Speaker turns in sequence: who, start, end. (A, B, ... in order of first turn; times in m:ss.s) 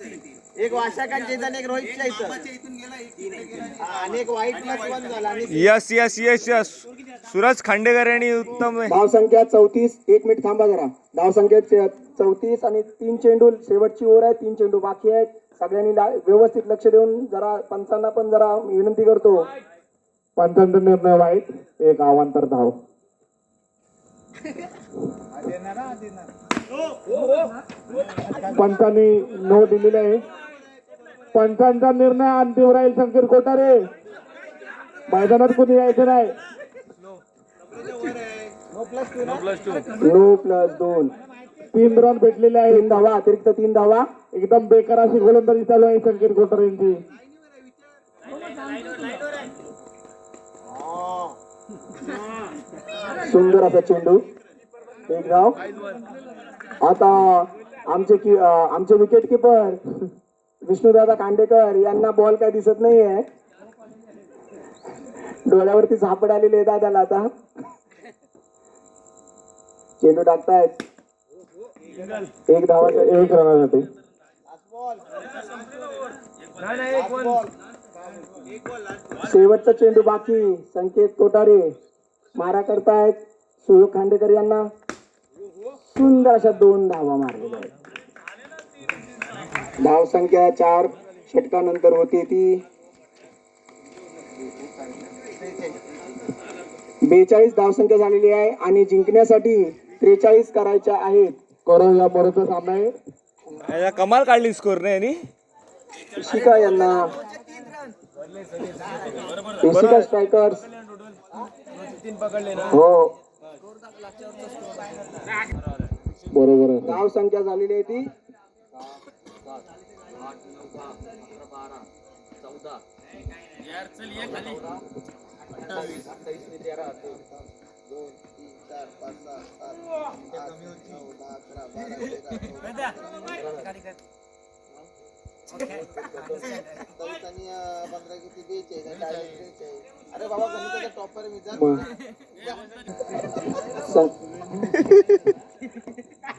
0:00.6-0:02.5 A
0:03.6-0:05.4 A
0:05.5-0:08.9 B
0:08.9-0:19.5 C
0:20.4-0:22.8 D
0:28.5-0:30.2 D
0:31.3-0:33.8 D
0:35.1-0:36.4 D
0:38.7-0:39.5 A
0:40.0-0:41.1 C
0:41.7-0:43.0 D
0:42.7-0:44.1 C
0:44.3-0:47.0 D
0:53.2-0:54.2 C
0:55.1-0:55.6 C
0:56.8-0:59.8 C
1:00.6-1:03.2 C
1:05.4-1:07.3 C
1:10.0-1:10.7 C
1:12.5-1:13.2 C
1:12.8-1:13.9 D
1:17.0-1:17.4 A
1:19.2-1:21.7 C
1:22.3-1:24.6 C
1:25.9-1:27.7 C
1:29.8-1:32.6 C
1:37.0-1:41.4 C
1:41.6-1:43.0 D
1:43.6-1:45.2 B
1:46.2-1:47.1 C
1:49.6-1:50.6 C
1:49.6-1:50.0 B
1:52.7-1:53.1 C
1:56.3-1:57.0 D
1:56.8-1:58.1 C
2:06.0-2:07.2 A
2:08.2-2:09.6 A
2:10.8-2:12.6 A
2:15.6-2:21.5 A
2:21.6-2:21.8 D
2:23.7-2:24.1 C